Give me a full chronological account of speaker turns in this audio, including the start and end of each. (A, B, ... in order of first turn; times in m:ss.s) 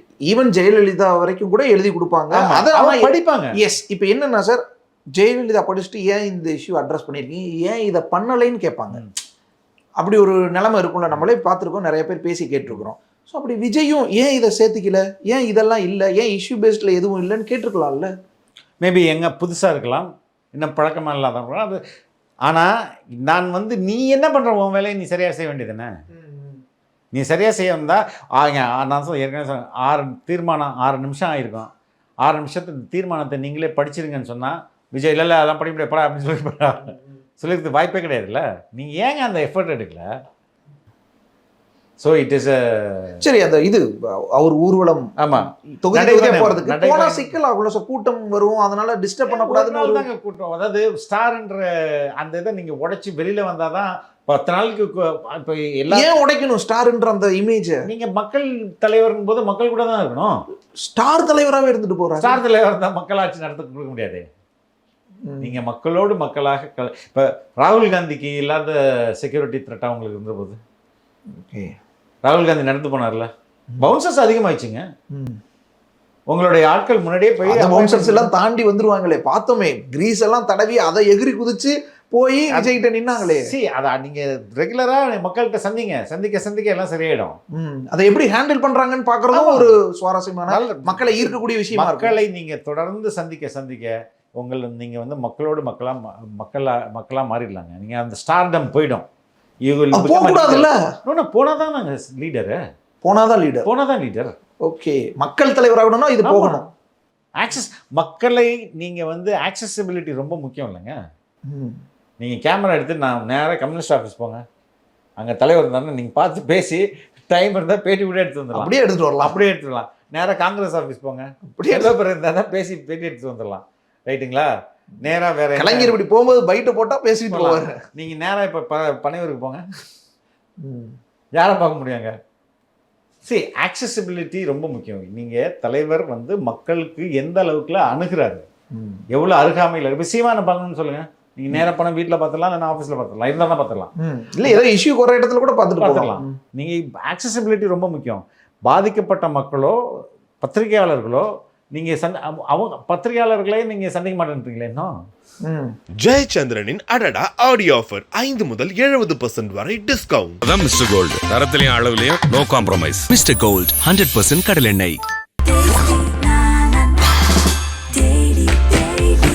0:00.3-0:04.6 A
0:02.3-0:03.6 B
0:05.2-0:09.0 A
0:10.0-0:18.1 A
0:18.8-0:21.8 B
0:22.5-0:25.9 B
0:26.2-0:26.6 A
0:27.1-0:31.7 B
0:32.2-0:40.1 B
0:42.0-0:43.2 B
0:43.2-0:45.1 A
0:45.2-0:47.3 B
0:45.8-0:50.1 A
0:49.3-0:51.6 B
0:52.2-0:56.2 B
0:55.9-0:57.8 A
0:57.8-1:00.4 B
1:00.8-1:02.4 A
1:02.2-1:04.3 B
1:05.2-1:05.6 A
1:05.4-1:10.6 B
1:11.3-1:11.8 A
1:12.2-1:13.3 B
1:13.8-1:14.8 B
1:15.1-1:15.4 A
1:16.3-1:18.3 B
1:17.4-1:23.5 A
1:23.2-1:27.4 B
1:27.5-1:32.2 A
1:29.3-1:29.8 B
1:30.5-1:39.1 B
1:39.6-1:42.6 B
1:39.9-1:40.8 A
1:43.0-1:43.7 A
1:43.6-1:44.3 B
1:44.6-1:46.7 A
1:46.2-1:46.6 B
1:47.4-1:51.0 B
1:51.5-1:51.8 A
1:52.2-1:54.4 B
1:55.2-1:58.7 B
1:58.5-1:59.4 A
1:59.2-2:04.5 B
2:01.5-2:01.9 A
2:05.0-2:06.0 B
2:05.6-2:07.8 A
2:07.3-2:09.6 B
2:10.6-2:11.0 A
2:11.4-2:12.1 B
2:13.3-2:18.4 B
2:18.7-2:19.0 A
2:19.1-2:23.9 B
2:24.0-2:26.4 A
2:25.8-2:29.8 B
2:30.4-2:34.9 B
2:35.4-2:35.7 A
2:36.0-2:40.4 C
2:40.4-2:43.1 D
2:43.1-2:45.0 E
2:48.0-2:48.8 E